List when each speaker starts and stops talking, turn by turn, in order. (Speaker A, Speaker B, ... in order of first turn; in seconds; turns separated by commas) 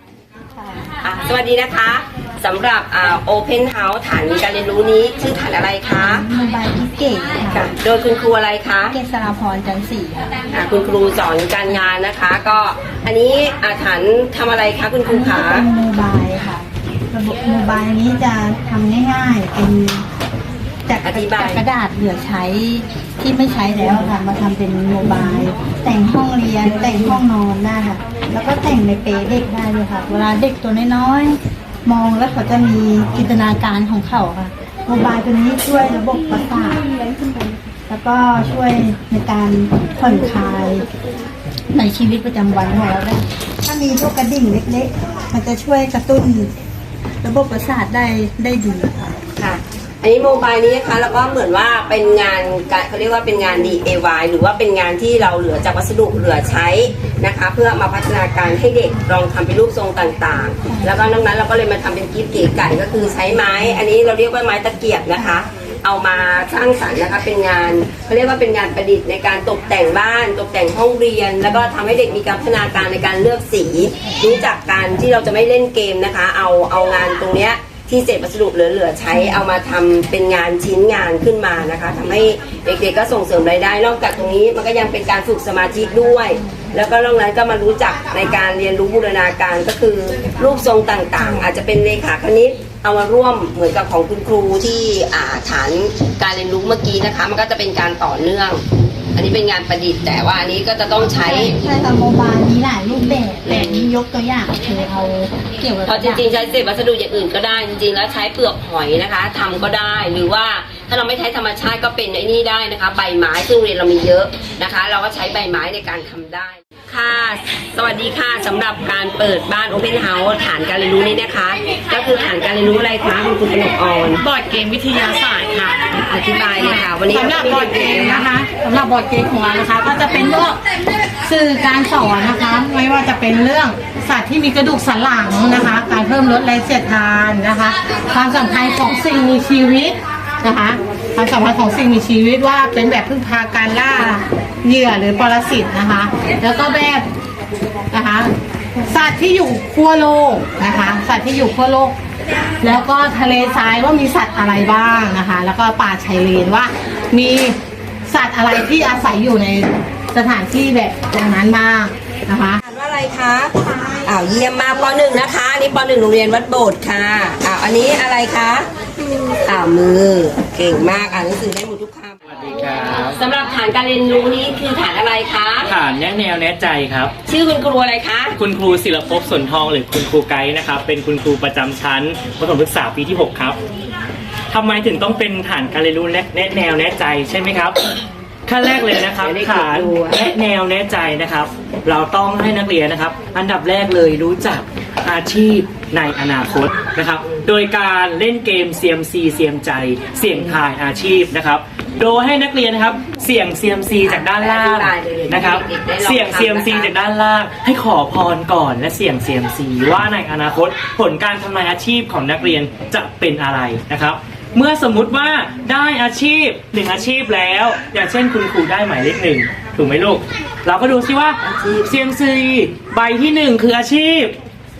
Speaker A: 0.6-0.9, Speaker B: 1.0-6.2, Speaker A: 6.0-7.7, Speaker B: 7.5-8.9, Speaker A: 8.9-10.4, Speaker B: 10.5-15.7, Speaker A: 15.0-20.1, Speaker A: 20.9-36.8, Speaker B: 21.0-21.6, Speaker A: 37.9-40.9, Speaker A: 41.7-46.5, Speaker A: 47.2-49.1, Speaker B: 49.4-98.6, Speaker B: 99.1-101.5, Speaker A: 101.2-106.2, Speaker B: 103.4-103.9, Speaker B: 105.8-124.2, Speaker C: 124.2-125.8, Speaker B: 125.9-128.3, Speaker C: 126.5-130.6, Speaker C: 131.2-147.0, Speaker C: 147.9-148.3, Speaker C: 148.9-151.9, Speaker C: 152.6-157.6, Speaker C: 158.1-162.6, Speaker B: 162.6-168.7, Speaker B: 169.4-172.2, Speaker D: 172.2-173.2, Speaker B: 172.9-175.7, Speaker D: 175.6-177.1, Speaker B: 177.2-178.4, Speaker D: 178.3-183.6, Speaker D: 184.5-187.8, Speaker D: 188.4-224.3, Speaker B: 189.2-190.2, Speaker B: 200.3-200.6, Speaker B: 204.0-206.9, Speaker B: 221.4-221.9